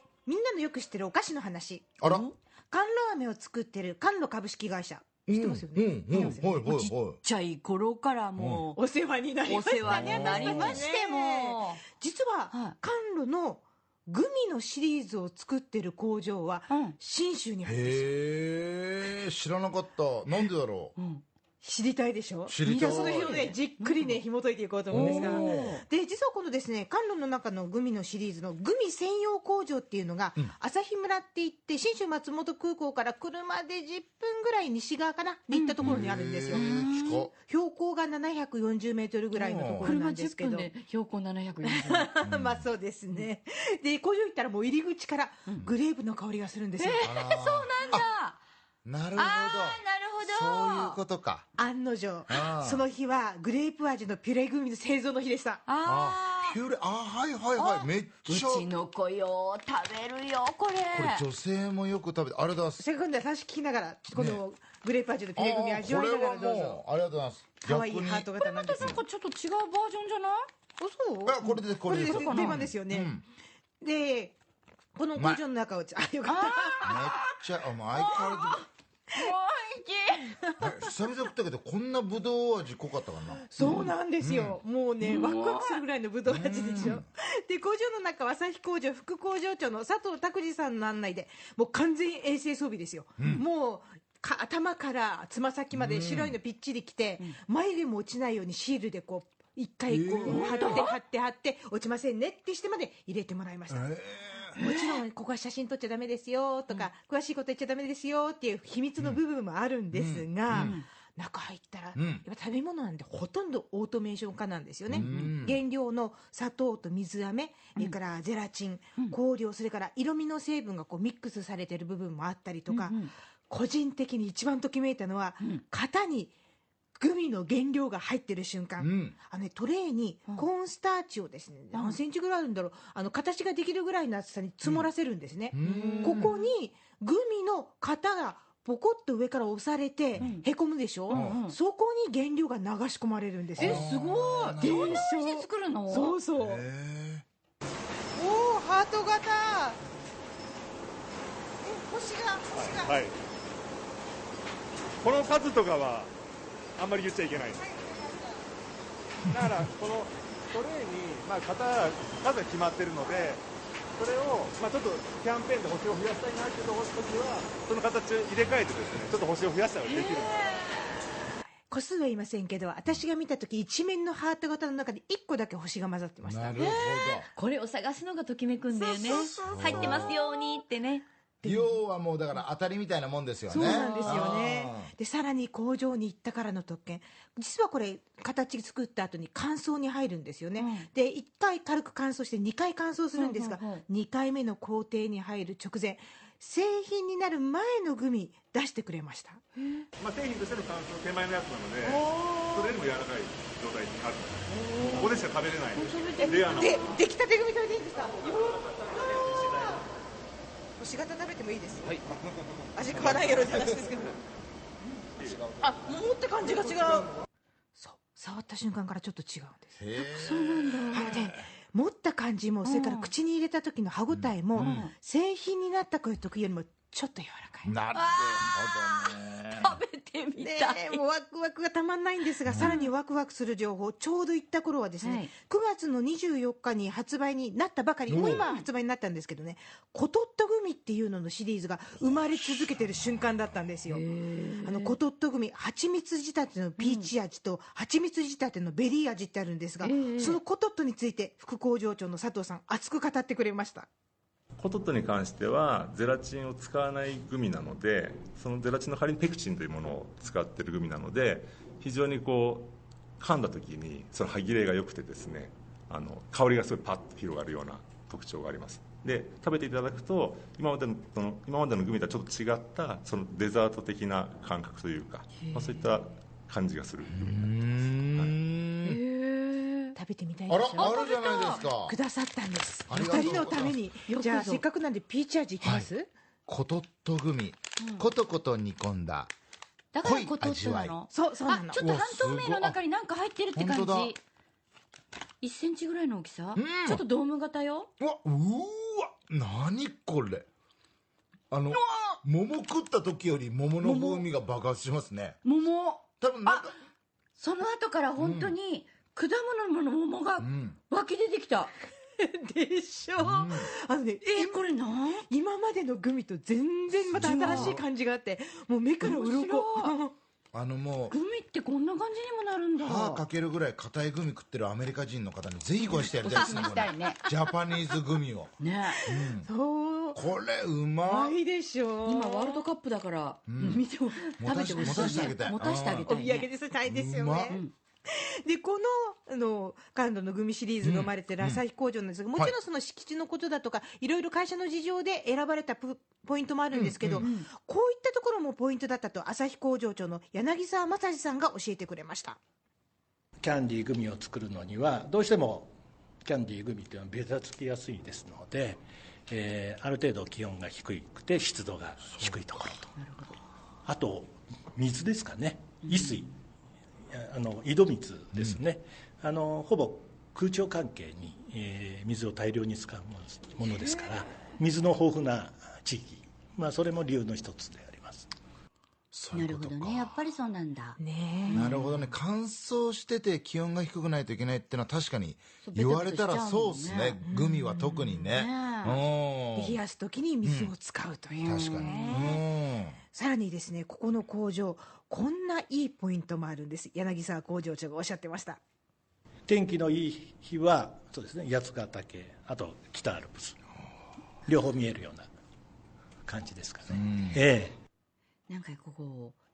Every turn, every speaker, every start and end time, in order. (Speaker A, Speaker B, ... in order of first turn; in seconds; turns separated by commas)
Speaker A: 0.2-1.9, Speaker B: 2.0-2.2, Speaker C: 2.0-2.3, Speaker A: 2.7-6.6, Speaker B: 5.3-7.2, Speaker C: 6.1-8.8, Speaker B: 8.4-8.6, Speaker A: 8.8-18.1, Speaker C: 9.4-11.8, Speaker B: 9.8-10.9, Speaker C: 16.7-16.9, Speaker B: 17.6-20.9, Speaker C: 20.9-21.2, Speaker A: 21.6-40.7, Speaker B: 22.5-23.5, Speaker C: 22.6-24.2, Speaker B: 24.9-25.8, Speaker C: 24.9-25.8, Speaker C: 35.5-37.2, Speaker B: 35.8-37.3, Speaker B: 39.3-39.9, Speaker C: 39.8-42.1, Speaker A: 41.6-47.2, Speaker B: 42.2-42.6, Speaker C: 46.8-48.4, Speaker B: 47.0-48.1, Speaker B: 48.8-51.5, Speaker C: 49.1-51.0, Speaker A: 51.6-55.6, Speaker B: 52.3-52.8, Speaker C: 55.6-56.6, Speaker B: 55.8-58.7, Speaker C: 57.5-61.2, Speaker B: 60.9-62.8, Speaker A: 62.8-66.8, Speaker B: 64.1-64.4, Speaker B: 65.3-69.0, Speaker A: 67.6-68.9, Speaker C: 68.4-70.5, Speaker A: 70.8-73.1, Speaker B: 71.2-73.2, Speaker C: 71.8-72.6, Speaker A: 73.8-74.4, Speaker A: 75.0-76.9, Speaker C: 76.3-77.3, Speaker B: 76.8-78.6, Speaker C: 77.9-80.3, Speaker B: 80.6-84.6, Speaker A: 83.4-103.8, Speaker C: 83.6-83.9, Speaker C: 85.0-85.8, Speaker B: 86.3-87.0, Speaker B: 93.2-93.4, Speaker B: 95.7-96.3, Speaker B: 99.9-100.8, Speaker C: 100.2-101.0, Speaker B: 103.7-104.5, Speaker A: 104.5-126.3, Speaker C: 104.5-105.0, Speaker B: 109.9-110.8, Speaker C: 110.5-110.8, Speaker B: 112.0-112.2, Speaker B: 114.9-115.6, Speaker C: 115.0-115.3, Speaker C: 122.7-123.1, Speaker A: 127.0-143.8, Speaker B: 128.8-129.2, Speaker C: 131.7-132.0, Speaker B: 135.5-136.3, Speaker C: 135.6-136.5, Speaker C: 140.2-140.4, Speaker C: 141.1-141.6, Speaker B: 141.1-141.4, Speaker B: 143.6-145.1, Speaker C: 143.6-146.2, Speaker A: 144.6-146.6, Speaker B: 146.3-147.2, Speaker A: 148.2-149.8, Speaker A: 151.6-153.0, Speaker D: 152.6-153.1, Speaker D: 155.0-156.1, Speaker D: 156.8-157.6, Speaker B: 159.3-159.6, Speaker D: 159.3-163.4, Speaker D: 164.0-170.3, Speaker C: 169.8-170.8, Speaker A: 171.7-176.8, Speaker B: 176.2-177.3, Speaker C: 176.5-181.1, Speaker A: 178.8-180.1, Speaker B: 179.4-180.1, Speaker A: 181.4-181.8, Speaker B: 181.4-184.9, Speaker A: 183.5-199.4, Speaker C: 183.5-184.4, Speaker C: 190.6-190.9, Speaker C: 193.2-193.8, Speaker C: 199.6-199.8, Speaker D: 200.0-201.9, Speaker A: 201.8-202.8, Speaker D: 202.7-204.4, Speaker C: 204.5-205.2, Speaker A: 204.8-205.1, Speaker D: 205.2-205.9, Speaker C: 205.7-206.9, Speaker A: 206.2-209.8, Speaker A: 210.8-212.0, Speaker A: 212.7-214.2, Speaker E: 215.2-215.4, Speaker A: 215.6-217.1, Speaker A: 217.8-219.8, Speaker B: 219.8-221.5, Speaker C: 220.0-221.3, Speaker A: 220.9-227.8, Speaker C: 222.6-223.1, Speaker B: 224.1-224.9, Speaker C: 224.5-224.9, Speaker B: 227.6-229.8, Speaker C: 227.9-231.0, Speaker A: 230.4-244.0, Speaker B: 232.4-232.7, Speaker C: 232.5-232.9, Speaker C: 235.0-235.3, Speaker B: 238.1-238.5, Speaker C: 238.2-238.7, Speaker C: 243.9-244.9, Speaker A: 244.6-253.9, Speaker C: 246.8-247.1, Speaker C: 249.8-250.4, Speaker E: 254.6-278.4, Speaker C: 275.4-275.8, Speaker B: 277.1-279.0, Speaker C: 278.8-280.0, Speaker A: 280.0-286.1, Speaker B: 280.5-282.0, Speaker C: 280.7-281.6, Speaker B: 282.9-283.8, Speaker C: 283.0-284.6, Speaker B: 285.6-285.9, Speaker B: 286.5-289.3, Speaker C: 287.8-288.1, Speaker C: 289.9-294.2, Speaker B: 290.0-290.9, Speaker A: 291.1-291.8, Speaker B: 291.8-292.8, Speaker B: 293.5-294.1, Speaker C: 295.4-297.9, Speaker B: 296.5-297.0, Speaker B: 298.0-300.4, Speaker B: 301.5-305.4, Speaker C: 303.8-304.3, Speaker C: 305.4-306.7, Speaker B: 306.2-306.8, Speaker C: 307.4-311.7, Speaker B: 308.1-308.6, Speaker B: 310.4-310.8, Speaker A: 312.2-314.6, Speaker B: 313.2-313.7, Speaker C: 314.2-315.2, Speaker A: 315.3-320.1, Speaker B: 317.1-317.8, Speaker C: 317.1-317.8, Speaker C: 319.0-319.9, Speaker B: 320.5-321.2, Speaker C: 321.1-323.2, Speaker B: 322.8-328.5, Speaker C: 325.8-327.2, Speaker A: 326.4-326.6, Speaker C: 328.6-329.1, Speaker B: 329.1-329.5, Speaker A: 329.1-330.2, Speaker B: 330.1-331.4, Speaker A: 331.0-332.7, Speaker C: 332.1-336.5, Speaker B: 333.5-333.8, Speaker B: 334.4-336.1, Speaker A: 334.7-335.3, Speaker A: 336.1-352.4, Speaker B: 336.8-337.6, Speaker B: 340.8-341.6, Speaker B: 346.7-347.3, Speaker C: 347.2-347.5, Speaker F: 353.4-362.9, Speaker C: 362.9-363.4, Speaker F: 363.9-366.3, Speaker C: 365.8-366.3, Speaker F: 367.1-378.3, Speaker B: 379.1-380.3, Speaker C: 379.3-382.1, Speaker A: 381.0-381.8, Speaker B: 381.5-389.8, Speaker C: 385.6-387.3, Speaker A: 387.2-388.1, Speaker C: 387.8-389.0, Speaker A: 389.5-392.4, Speaker B: 390.4-390.7, Speaker C: 391.3-392.4, Speaker B: 391.4-393.0, Speaker A: 393.1-398.6, Speaker F: 399.5-403.6, Speaker F: 404.4-405.3, Speaker F: 406.2-407.8, Speaker B: 406.9-407.4, Speaker C: 408.5-409.4